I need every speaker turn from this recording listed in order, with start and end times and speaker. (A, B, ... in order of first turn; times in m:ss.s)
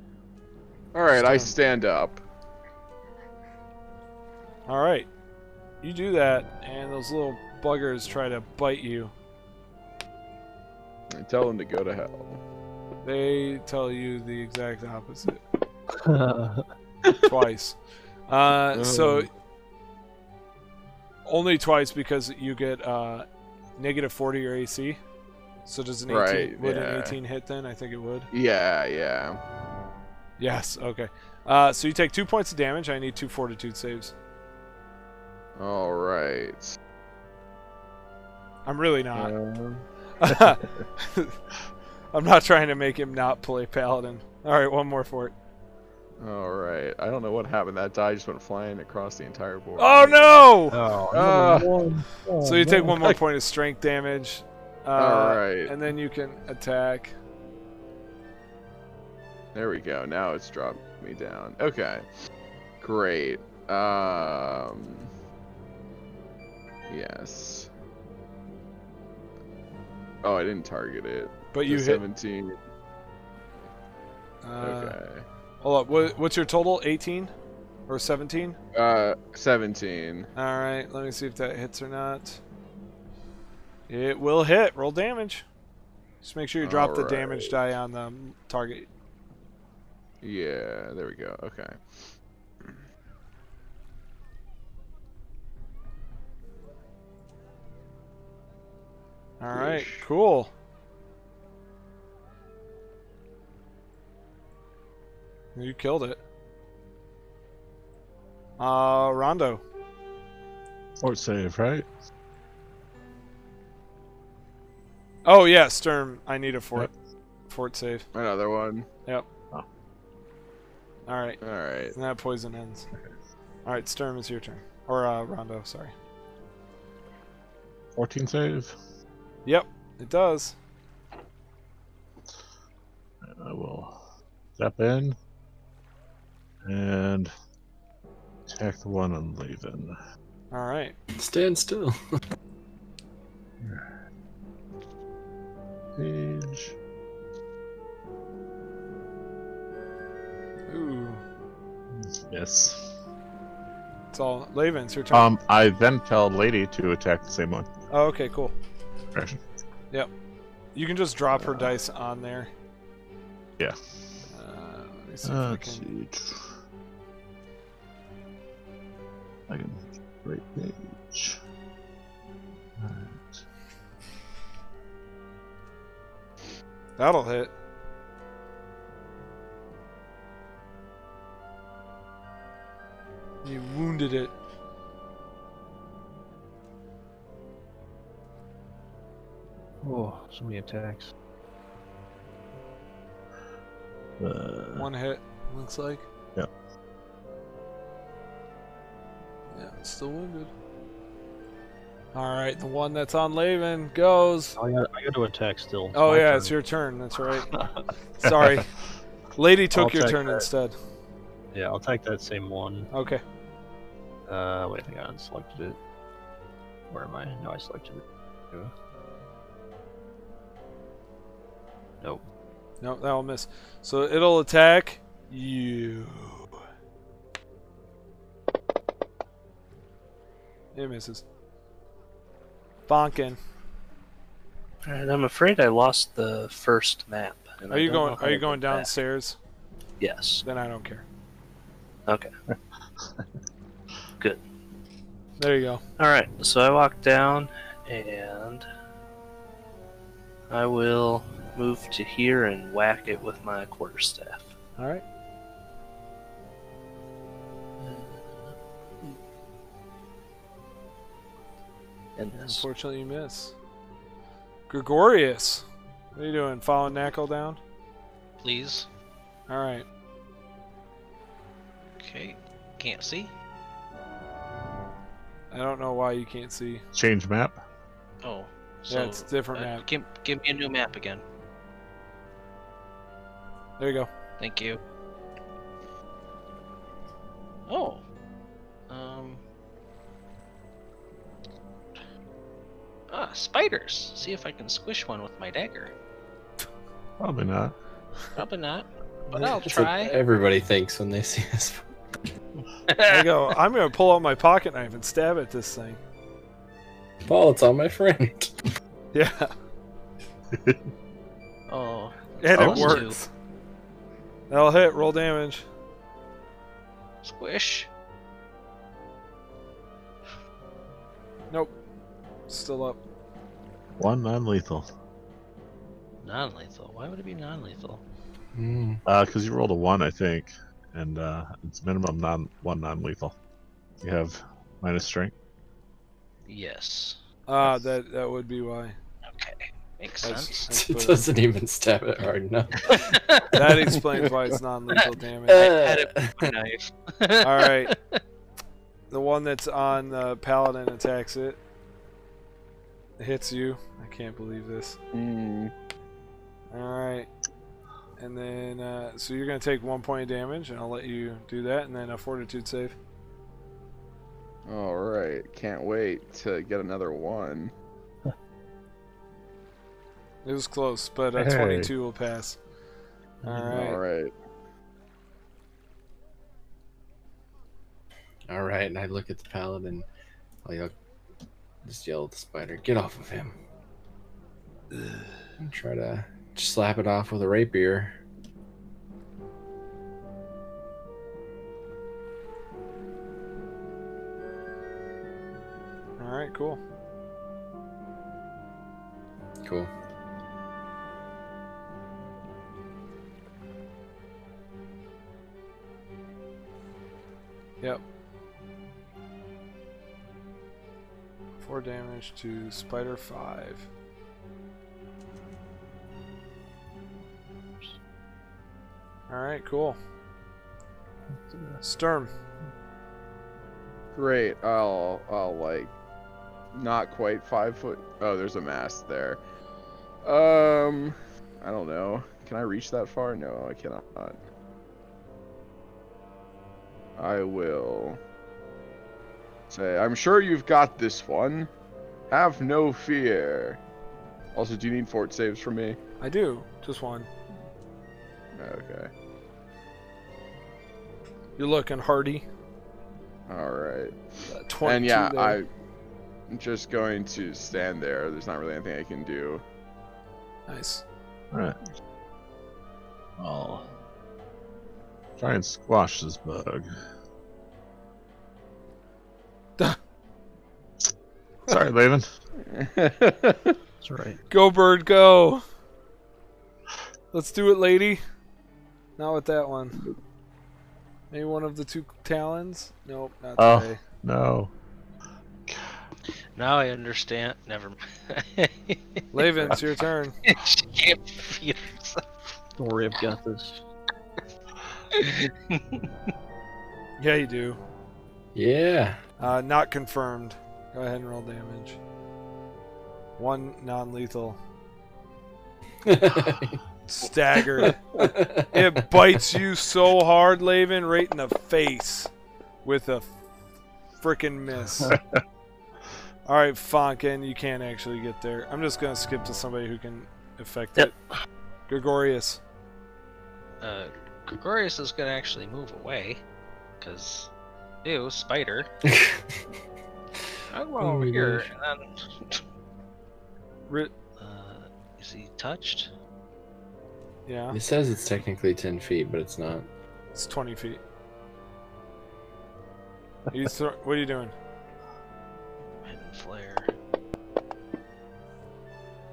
0:00.9-0:02.2 A
0:01.2-0:01.5 B
0:04.7-0:05.1 B
0:05.8-0:09.1 B
0:11.1-0:12.4 A
0:13.0-0:15.4 B
0:15.9-0:16.7 C
0:17.2-0:17.8 B
0:18.3-0:19.3 B
0:18.8-0:19.2 A
0:21.2-0:23.3 B
0:23.8-0:25.0 B
0:25.7-0:28.3 B
0:26.1-0:27.2 A
0:28.3-0:29.4 A
0:30.4-0:34.1 B
0:35.6-0:36.8 A
0:38.7-0:39.3 B
0:39.2-0:39.8 A
0:40.2-0:41.4 B
0:42.1-0:45.3 B
0:46.2-0:50.4 A
0:49.8-0:50.8 B
0:50.7-0:53.2 C
0:51.1-0:51.7 A
0:52.4-0:57.2 B
0:55.0-0:55.7 A
0:59.6-1:02.1 A
1:02.8-1:05.1 A
1:06.9-1:07.7 A
1:10.2-1:12.6 A
1:11.5-1:12.0 B
1:14.4-1:15.0 B
1:14.6-1:15.2 A
1:15.6-1:17.3 B
1:17.9-1:18.6 B
1:18.7-1:20.3 A
1:20.4-1:22.4 B
1:23.9-1:25.4 B
1:26.2-1:28.9 B
1:26.6-1:27.6 A
1:30.2-1:32.1 A
1:39.4-1:40.5 B
1:39.5-1:40.1 A
1:45.6-1:46.2 B
1:48.6-1:49.6 B
1:51.0-1:51.9 D
1:55.2-1:56.9 B
1:57.5-1:58.0 B
1:58.1-1:58.9 A
2:01.1-2:01.4 B
2:01.4-2:02.0 A
2:01.9-2:02.9 B
2:03.6-2:05.9 B
2:08.0-2:08.8 D
2:09.4-2:10.6 B
2:13.3-2:14.0 D
2:14.6-2:15.2 D
2:16.6-2:17.3 D
2:18.5-2:20.0 D
2:20.5-2:21.0 B
2:21.2-2:22.0 E
2:26.0-2:26.7 D
2:30.7-2:31.2 B
2:32.0-2:32.9 D
2:34.1-2:35.3 B
2:35.1-2:37.7 D
2:37.9-2:38.5 B
2:39.2-2:39.4 D
2:40.8-2:42.5 B
2:41.4-2:41.7 D
2:44.3-2:45.9 B
2:45.2-2:46.5 D
2:49.5-2:51.4 D
2:52.8-2:53.4 D
2:57.0-2:57.5 B
3:03.4-3:04.3 B
3:09.8-3:11.1 C
3:14.2-3:14.9 D
3:14.7-3:16.1 B
3:19.5-3:20.5 B
3:22.2-3:24.6 B
3:24.6-3:26.6 C
3:25.9-3:27.5 B
3:27.5-3:27.8 C
3:28.2-3:28.7 B
3:28.2-3:28.7 D
3:29.4-3:30.8 B
3:29.8-3:30.4 C
3:31.5-3:32.9 C
3:32.9-3:33.2 B
3:34.3-3:35.8 C
3:36.9-3:38.7 C
3:42.8-3:46.6 B
3:50.7-3:51.2 B
3:52.9-3:53.4 B
3:54.8-3:58.9 F
3:57.7-3:59.4 B
4:00.0-4:00.4 F
4:00.4-4:01.0 B
4:05.4-4:05.8 B
4:06.0-4:08.7 F
4:10.5-4:14.5 F
4:14.8-4:15.0 B
4:17.8-4:18.4 F
4:22.2-4:22.6 F
4:22.3-4:23.5 B
4:24.7-4:27.6 B
4:28.4-4:28.9 G
4:29.5-4:29.9 B
4:32.0-4:33.3 G
4:35.5-4:36.8 B
4:36.9-4:37.6 D
4:38.2-4:41.2 G
4:38.9-4:39.8 B
4:43.8-4:44.1 B
4:44.4-4:44.8 G
4:47.7-4:48.0 G
4:48.9-4:49.4 G
4:53.1-4:55.9 G
4:57.2-4:57.8 D
4:58.4-5:00.2 G
4:59.3-5:01.8 E
5:02.9-5:03.3 G
5:03.1-5:06.0 B
5:07.2-5:08.5 E
5:09.1-5:09.5 B
5:11.7-5:13.2 G
5:12.4-5:13.3 B
5:12.6-5:13.0 D
5:14.5-5:15.6 B
5:17.2-5:17.9 G
5:22.5-5:23.0 B
5:24.0-5:24.9 D
5:26.2-5:28.0 G
5:28.6-5:29.0 E
5:29.0-5:33.3 D
5:34.0-5:35.3 D
5:36.5-5:37.2 G
5:37.5-5:39.0 B
5:39.3-5:40.6 G
5:40.2-5:41.2 B
5:40.7-5:43.0 E
5:42.9-5:43.7 G
5:43.5-5:45.7 B
5:45.5-5:46.4 E
5:45.5-5:48.2 G
5:47.4-5:47.9 B
5:49.1-5:51.6 B
5:53.2-5:55.0 B
5:55.1-5:55.7 A
5:56.7-5:57.3 B
5:58.2-6:03.0 B
6:04.7-6:07.7 A
6:10.4-6:12.6 B
6:11.4-6:11.9 D
6:13.4-6:14.0 B
6:13.7-6:14.3 A
6:18.5-6:20.0 E
6:20.6-6:20.9 E
6:21.8-6:23.6 E
6:25.6-6:28.1 E
6:36.2-6:36.8 B
6:39.6-6:39.9 E
6:51.6-6:53.9 B
6:59.3-7:00.0 B
7:01.5-7:01.8 C
7:01.8-7:02.3 B
7:04.2-7:05.9 A
7:06.7-7:09.4 A
7:10.2-7:14.4 A
7:17.2-7:18.2 A
7:19.7-7:21.7 A
7:22.3-7:23.8 A
7:24.6-7:26.0 A
7:26.2-7:27.3 B
7:28.6-7:29.1 A
7:31.6-7:32.5 B
7:33.5-7:34.2 A
7:34.5-7:35.6 B
7:34.8-7:35.7 A
7:36.5-7:39.6 A
7:40.7-7:41.0 B
7:41.5-7:41.8 D
7:43.4-7:43.9 D
7:45.4-7:46.9 D
7:51.7-7:52.3 D
7:52.7-7:53.8 A
7:54.0-7:54.4 C
7:54.5-7:55.6 B
7:57.3-7:58.2 B
7:59.2-8:00.0 B
8:01.3-8:04.0 B
8:03.6-8:04.7 D
8:05.7-8:05.9 D
8:06.6-8:09.0 G
8:09.3-8:10.4 B
8:10.4-8:12.2 G
8:12.8-8:13.8 C
8:15.1-8:16.0 G
8:17.2-8:17.8 B
8:18.6-8:19.2 E
8:19.4-8:22.0 B
8:23.4-8:24.6 B
8:26.0-8:26.8 E
8:27.1-8:28.0 B
8:28.2-8:29.0 E
8:28.7-8:32.3 B
8:32.8-8:33.3 B
8:34.2-8:35.2 B
8:35.1-8:35.4 D
8:36.5-8:41.2 B
8:41.9-8:42.6 B
8:43.8-8:46.4 G
8:47.0-8:47.5 G
8:48.0-8:48.9 G
8:49.0-8:49.6 E
8:50.7-8:52.6 G
8:51.0-8:51.7 E
8:53.9-8:54.1 B
8:54.4-8:56.1 G
8:57.5-8:57.8 B
8:57.7-8:59.9 E
9:00.4-9:01.0 B
9:03.5-9:04.5 B
9:06.0-9:06.9 G